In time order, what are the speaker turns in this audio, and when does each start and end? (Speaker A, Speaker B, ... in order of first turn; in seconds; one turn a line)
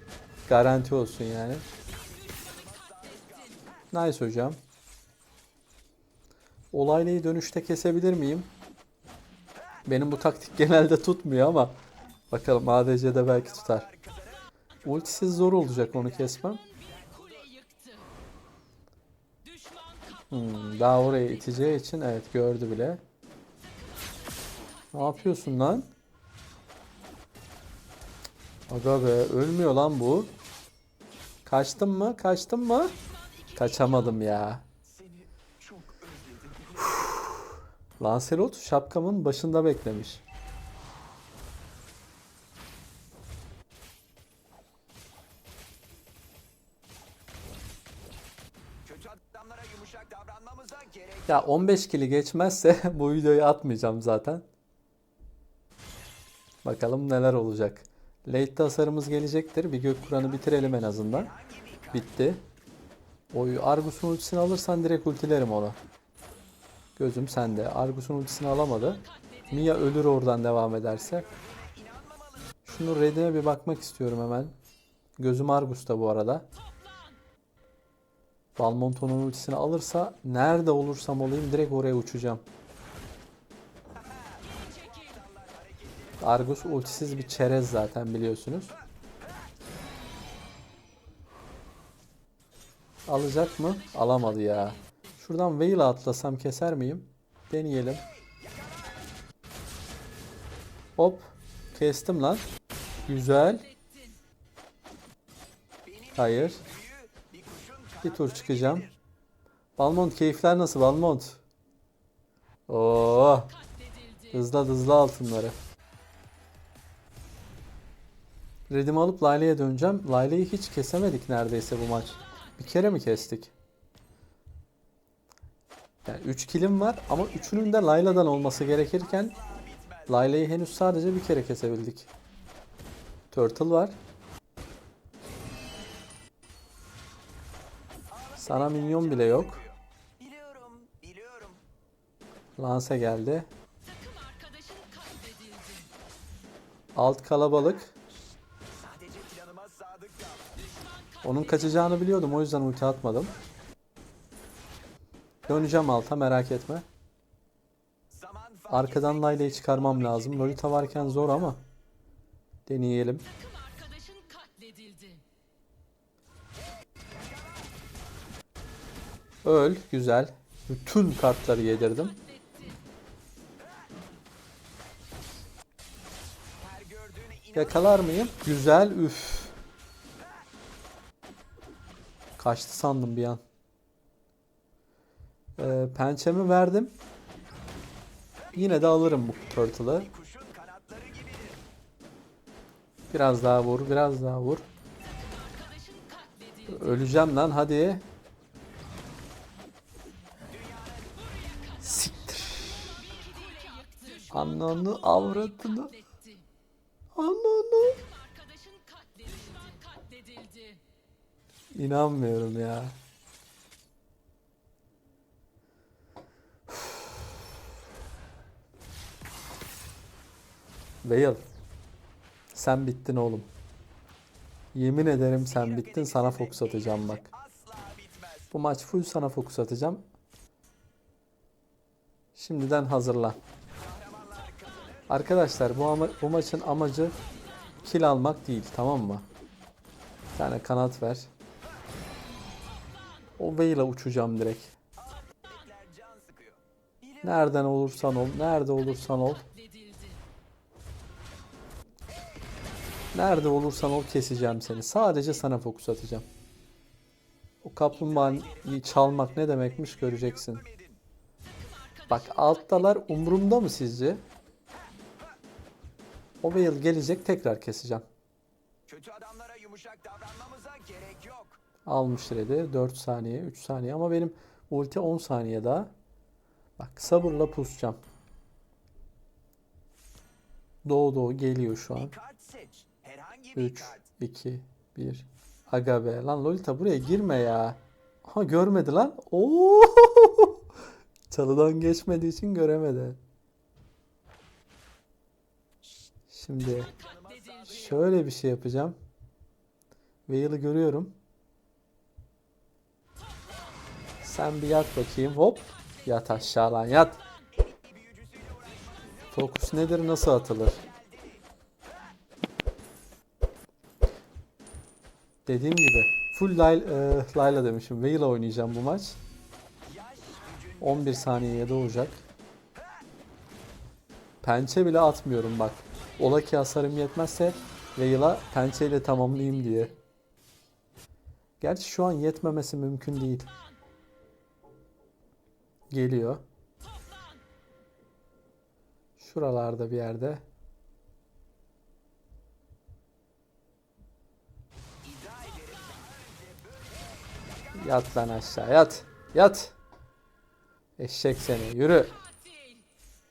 Speaker A: 0.5-1.7
Speaker B: 1.9-3.8
Speaker A: 3.9-4.6
Speaker A: 6.7-8.5
Speaker A: 9.9-13.9
Speaker B: 13.3-14.5
Speaker A: 14.8-16.6
Speaker B: 15.0-18.0
Speaker A: 20.3-23.0
Speaker A: 24.9-25.9
Speaker A: 28.7-30.3
Speaker A: 31.5-33.0
Speaker A: 33.5-34.7
Speaker B: 34.8-37.1
Speaker A: 36.9-37.5
Speaker A: 38.0-40.2
Speaker B: 48.8-51.3
Speaker A: 51.3-54.5
Speaker A: 56.6-61.3
Speaker B: 60.4-62.1
Speaker A: 61.9-62.5
Speaker A: 63.3-65.8
Speaker A: 67.0-71.3
Speaker B: 70.9-72.6
Speaker A: 72.7-74.5
Speaker A: 75.2-76.5
Speaker A: 78.6-82.4
Speaker B: 83.9-87.6
Speaker A: 86.2-88.8
Speaker A: 93.1-98.0
Speaker B: 98.2-99.0
Speaker A: 101.0-102.4
Speaker A: 103.1-103.7
Speaker B: 105.8-109.0
Speaker A: 106.2-106.6
Speaker A: 108.0-108.9
Speaker A: 109.8-111.4
Speaker A: 112.7-113.5
Speaker A: 114.3-115.6
Speaker A: 118.7-123.5
Speaker A: 126.0-129.4
Speaker B: 127.6-130.1
Speaker A: 130.1-132.1
Speaker A: 133.3-134.0
Speaker B: 138.1-141.6
Speaker A: 138.4-139.6
Speaker A: 142.6-143.5
Speaker A: 146.9-147.9
Speaker B: 148.6-150.6
Speaker A: 151.2-153.3
Speaker A: 155.5-156.9
Speaker B: 158.1-161.6
Speaker A: 158.7-161.7
Speaker A: 162.7-163.3
Speaker B: 166.9-167.7
Speaker A: 169.4-172.2
Speaker B: 176.5-178.2
Speaker A: 177.5-179.6
Speaker A: 182.4-183.4
Speaker A: 185.6-187.0
Speaker B: 188.5-191.6
Speaker A: 188.6-190.1
Speaker A: 193.1-194.7
Speaker A: 196.7-198.0
Speaker B: 200.5-201.8
Speaker A: 201.8-203.1
Speaker B: 203.4-204.0
Speaker A: 204.3-206.0
Speaker A: 207.2-208.0
Speaker A: 211.7-213.0
Speaker A: 221.0-221.4
Speaker A: 222.5-223.5
Speaker A: 224.7-227.3
Speaker B: 225.4-228.5
Speaker A: 228.5-230.0
Speaker A: 232.4-233.4
Speaker B: 233.7-235.1
Speaker A: 235.1-237.2
Speaker A: 237.8-239.3
Speaker A: 240.3-241.3
Speaker A: 243.4-244.7
Speaker B: 245.0-247.3
Speaker A: 247.2-249.5
Speaker A: 253.1-256.3
Speaker A: 257.6-260.6
Speaker B: 257.9-261.0
Speaker A: 262.1-264.2
Speaker A: 266.4-268.1
Speaker B: 268.9-271.6
Speaker A: 271.9-275.9
Speaker A: 276.8-278.0
Speaker A: 280.9-282.1
Speaker B: 282.0-284.1
Speaker A: 283.6-290.6
Speaker A: 291.3-293.2
Speaker A: 296.3-296.9
Speaker B: 296.6-298.0
Speaker A: 297.7-299.0
Speaker A: 300.3-301.2
Speaker A: 304.2-307.2
Speaker B: 307.1-311.5
Speaker A: 309.3-310.8
Speaker A: 315.5-319.2
Speaker B: 319.8-321.4
Speaker A: 320.8-322.3
Speaker A: 324.4-330.0
Speaker A: 331.6-333.5
Speaker A: 335.9-336.4
Speaker A: 339.2-340.4
Speaker B: 345.0-347.9
Speaker A: 347.7-349.8
Speaker A: 351.0-352.2